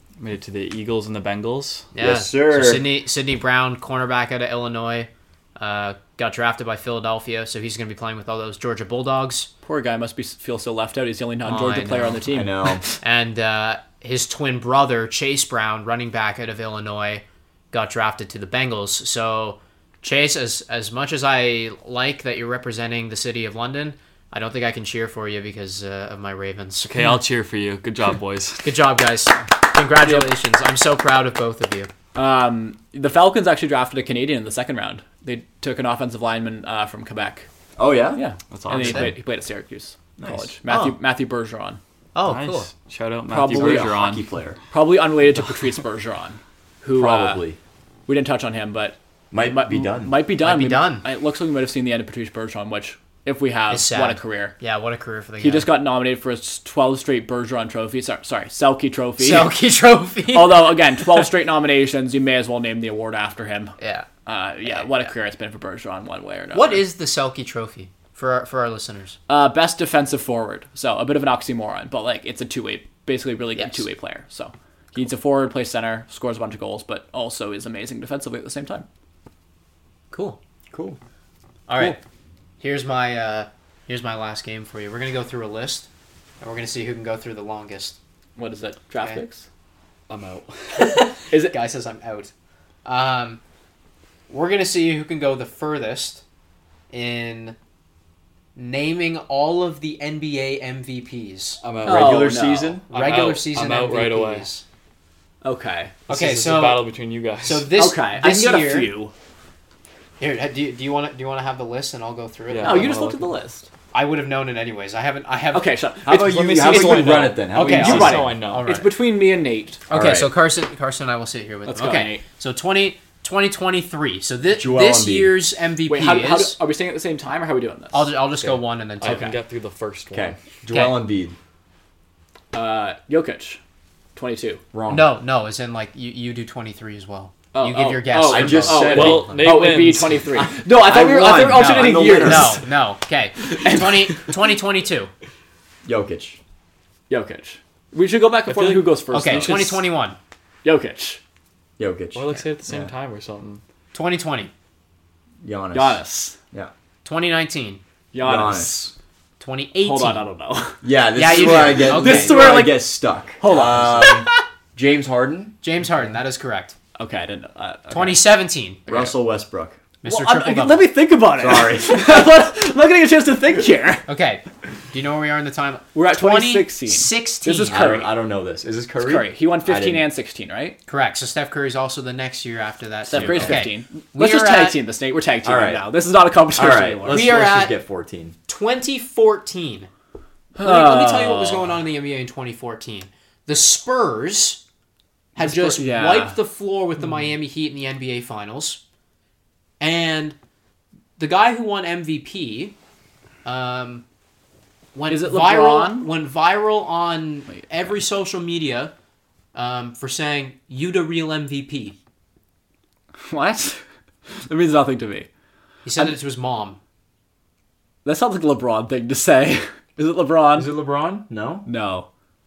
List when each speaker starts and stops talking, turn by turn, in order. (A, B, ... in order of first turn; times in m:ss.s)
0:00.2-0:01.9 A
0:01.9-0:09.5 B
0:02.0-0:02.8 C
0:09.6-0:13.0 D
0:12.2-0:12.8 C
0:13.0-0:26.9 B
0:26.8-0:28.8 A
0:28.6-0:31.9 B
0:30.0-0:30.3 D
0:32.1-0:37.5 D
0:37.8-0:38.2 C
0:38.1-0:41.8 D
0:38.5-0:39.1 A
0:38.7-0:39.1 B
0:40.2-0:40.5 C
0:40.7-0:41.0 B
0:42.1-0:42.7 B
0:42.2-0:44.2 A
0:43.3-0:44.2 D
0:43.5-0:44.6 C
0:44.7-0:47.4 D
0:46.9-0:47.6 C
0:48.1-0:54.5 D
0:49.3-0:50.2 C
0:50.4-0:51.0 B
0:53.7-0:55.7 B
0:55.4-0:59.5 D
0:59.2-1:01.1 B
1:00.3-1:03.7 D
1:03.8-1:04.1 B
1:04.2-1:06.8 D
1:04.6-1:05.1 B
1:06.5-1:09.2 B
1:09.3-1:18.8 D
1:13.6-1:13.8 B
1:20.1-1:20.4 B
1:20.7-1:21.0 C
1:21.7-1:22.0 B
1:22.6-1:25.9 B
1:26.4-1:28.0 B
1:28.4-1:29.4 D
1:30.1-1:31.0 A
1:30.8-1:32.3 B
1:31.0-1:31.6 D
1:32.8-1:33.4 B
1:34.3-1:36.2 B
1:36.9-1:37.6 B
1:38.6-1:41.6 B
1:41.6-1:42.2 A
1:41.8-1:42.9 C
1:41.8-1:43.4 D
1:42.9-1:44.6 B
1:42.9-1:44.5 A
1:45.4-1:46.0 D
1:46.1-1:46.9 B
1:46.1-1:47.7 A
1:47.4-1:48.9 B
1:47.7-1:49.1 D
1:50.2-1:53.0 B
1:52.5-1:53.4 A
1:52.6-1:53.7 D
1:53.9-1:55.7 B
1:55.5-1:59.8 D
1:56.0-1:58.2 C
1:56.5-1:58.7 A
1:57.5-1:58.9 B
1:59.9-2:06.6 B
1:59.9-2:00.3 C
2:01.6-2:02.2 D
2:04.6-2:05.3 C
2:05.8-2:08.1 D
2:07.9-2:09.4 B
2:08.4-2:10.4 A
2:09.0-2:09.3 D
2:10.1-2:11.3 C
2:10.7-2:11.0 B
2:12.5-2:13.6 D
2:14.2-2:14.6 D
2:14.7-2:15.1 C
2:14.9-2:19.6 B
2:17.5-2:22.7 D
2:18.2-2:19.5 C
2:18.7-2:20.5 A
2:20.7-2:22.6 C
2:21.5-2:25.1 B
2:23.4-2:24.3 D
2:25.8-2:26.4 C
2:27.1-2:29.8 D
2:28.5-2:29.8 A
2:29.1-2:30.2 B
2:30.6-2:31.2 D
2:31.8-2:32.2 C
2:32.1-2:33.6 A
2:33.9-2:34.5 B
2:35.4-2:36.0 C
2:35.7-2:36.4 D
2:37.0-2:37.8 B
2:38.1-2:38.9 D
2:38.2-2:38.9 C
2:39.4-2:40.2 B
2:39.8-2:44.4 D
2:40.8-2:45.6 C
2:41.1-2:42.7 B
2:45.6-2:46.7 B
2:47.0-2:48.2 D
2:47.9-2:48.8 B
2:48.8-2:49.1 D
2:48.9-2:49.8 C
2:50.0-2:50.8 B
2:50.0-2:54.0 D
2:51.4-2:52.2 C
2:54.1-2:58.1 B
2:55.9-2:58.1 D
2:57.7-3:00.0 C
2:59.0-3:00.8 D
3:00.8-3:04.8 B
3:03.0-3:07.3 D
3:03.1-3:03.6 C
3:05.4-3:05.8 C
3:06.6-3:08.3 C
3:07.1-3:07.7 B
3:08.5-3:09.9 B
3:10.6-3:11.7 D
3:10.6-3:14.6 B
3:15.4-3:18.8 B
3:15.4-3:16.4 D
3:19.8-3:20.4 B
3:21.2-3:22.8 B
3:23.4-3:24.0 B
3:24.9-3:28.9 B
3:25.1-3:26.1 D
3:29.5-3:32.0 B
3:33.2-3:33.8 D
3:34.4-3:35.3 D
3:35.8-3:36.8 B
3:38.0-3:40.7 D
3:40.5-3:41.6 C
3:41.6-3:42.1 D